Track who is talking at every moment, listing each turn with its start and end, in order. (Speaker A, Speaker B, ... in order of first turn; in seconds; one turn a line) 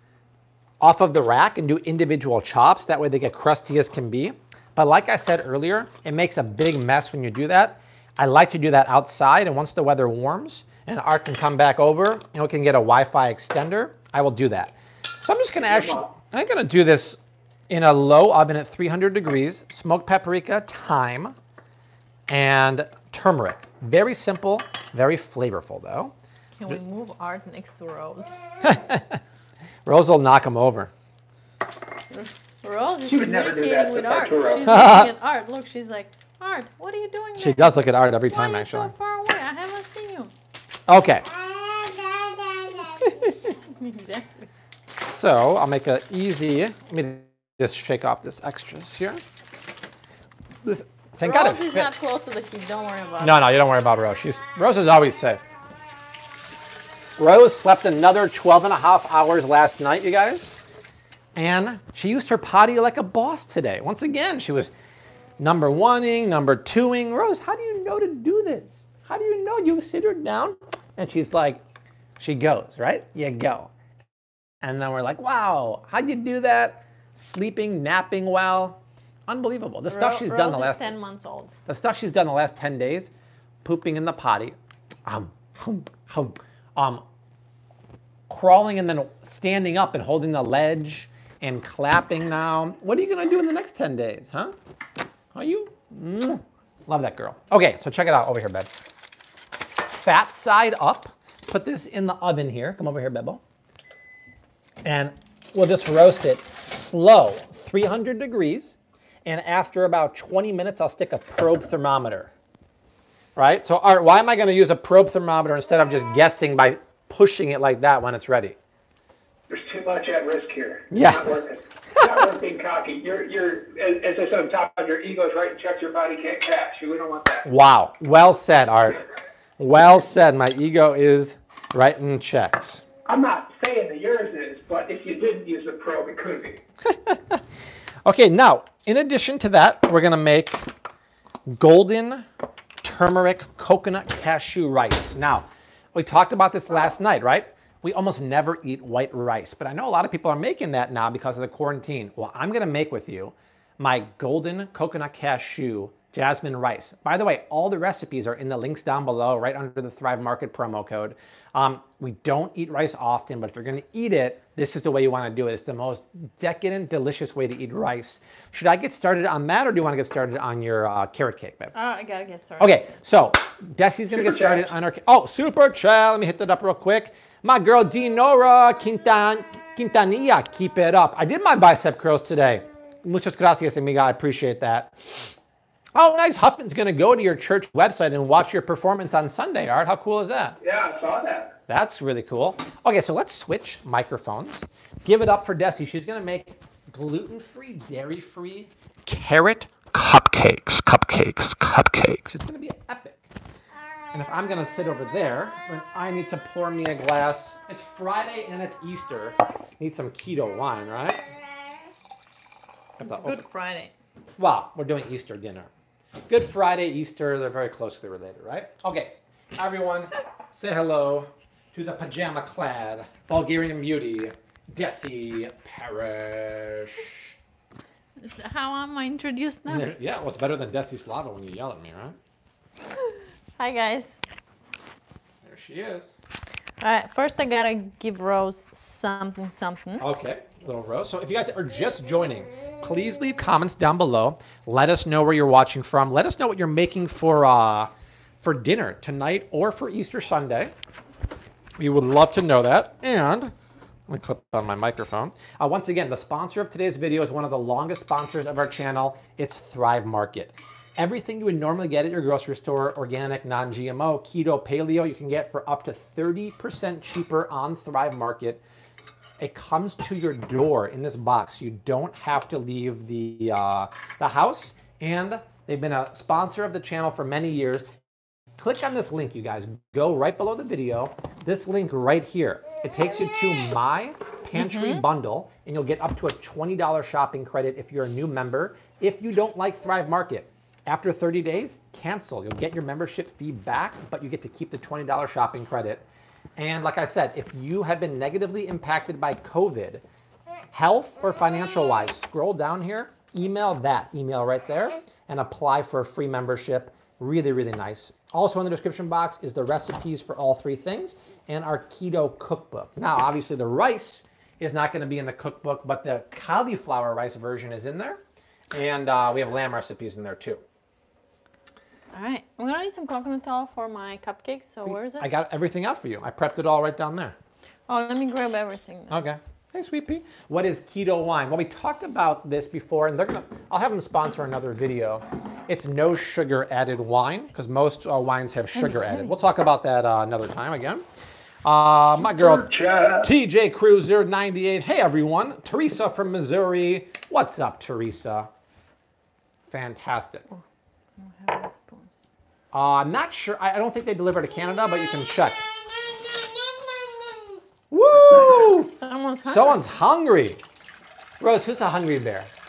Speaker A: 0.8-21.4
Speaker B: 15.7-16.1
Speaker A: 22.3-26.1
Speaker C: 26.6-28.4
Speaker A: 28.6-29.2
Speaker A: 29.9-30.9
Speaker C: 32.1-37.8
Speaker B: 33.1-34.7
Speaker A: 34.7-35.1
Speaker A: 37.4-38.9
Speaker C: 38.3-40.3
Speaker A: 40.9-41.3
Speaker A: 43.0-43.5
Speaker C: 43.7-44.5
Speaker A: 44.9-49.2
Speaker A: 50.6-52.0
Speaker C: 51.2-53.4
Speaker A: 53.2-55.4
Speaker A: 57.2-60.6
Speaker A: 61.4-64.7
Speaker A: 65.4-71.6
Speaker A: 72.2-73.7
Speaker A: 74.6-80.9
Speaker C: 79.9-81.5
Speaker A: 81.7-83.1
Speaker A: 83.6-87.0
Speaker A: 88.3-94.5
Speaker A: 95.3-98.7
Speaker A: 99.8-103.4
Speaker A: 104.8-112.3
Speaker A: 113.4-118.6
Speaker B: 119.5-127.5
Speaker A: 120.9-122.1
Speaker A: 127.5-129.0
Speaker A: 129.6-132.8
Speaker B: 133.1-136.6
Speaker A: 136.8-137.4
Speaker A: 138.1-140.7
Speaker A: 141.5-142.3
Speaker A: 142.8-171.7
Speaker C: 171.8-172.8
Speaker A: 172.6-185.0
Speaker B: 174.1-174.7
Speaker A: 185.9-190.6
Speaker B: 190.6-191.5
Speaker A: 191.7-203.3
Speaker A: 204.1-211.4
Speaker A: 213.0-213.4
Speaker C: 213.0-213.9
Speaker A: 214.4-215.7
Speaker A: 216.3-227.2
Speaker C: 228.2-229.9
Speaker A: 229.7-232.2
Speaker C: 232.9-234.2
Speaker A: 235.4-236.2
Speaker C: 236.8-240.0
Speaker A: 240.0-247.9
Speaker A: 248.4-250.7
Speaker A: 251.8-253.5
Speaker A: 254.1-268.6
Speaker A: 269.4-277.9
Speaker A: 278.6-296.0
Speaker C: 284.5-285.1
Speaker A: 296.6-300.0
Speaker A: 300.7-318.2
Speaker A: 318.7-320.6
Speaker C: 322.1-325.3
Speaker A: 324.9-327.4
Speaker C: 327.9-329.2
Speaker A: 329.1-341.0
Speaker C: 338.8-339.3
Speaker A: 341.6-348.5
Speaker B: 342.2-343.3
Speaker A: 349.7-350.5
Speaker C: 351.2-352.2
Speaker A: 352.7-355.7
Speaker A: 357.9-358.9
Speaker C: 358.9-359.9
Speaker A: 359.5-360.6
Speaker A: 361.4-362.5